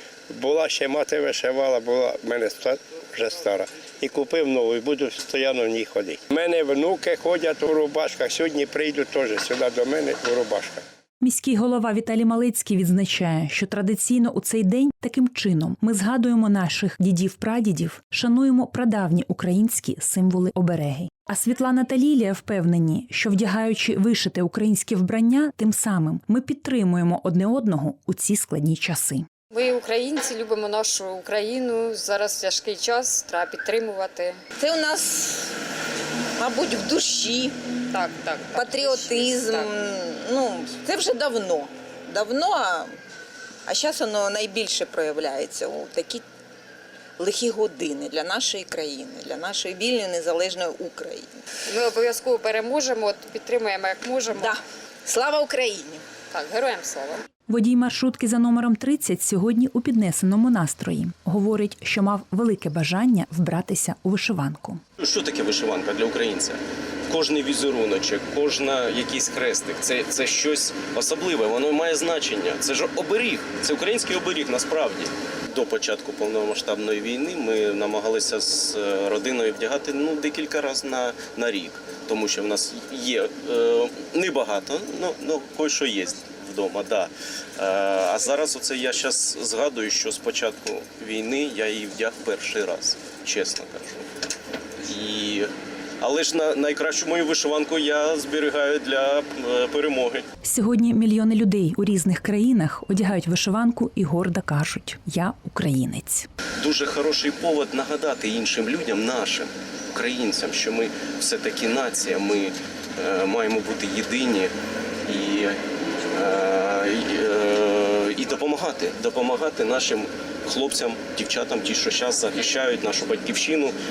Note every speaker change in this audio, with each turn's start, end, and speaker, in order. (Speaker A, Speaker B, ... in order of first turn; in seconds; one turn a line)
Speaker A: 0.3-10.8
Speaker B: 11.2-29.3
Speaker C: 29.5-34.4
Speaker D: 34.6-35.5
Speaker D: 36.4-37.5
Speaker C: 37.9-39.7
Speaker D: 38.5-42.9
Speaker D: 43.6-46.2
Speaker D: 47.2-51.3
Speaker C: 51.7-54.5
Speaker D: 54.3-56.0
Speaker C: 56.3-57.2
Speaker B: 57.5-64.8
Speaker E: 65.0-94.1
Speaker E: 94.8-100.2
Speaker B: 100.4-106.3
Speaker E: 106.6-114.5
Speaker E: 115.0-115.6
Speaker E: 116.1-123.8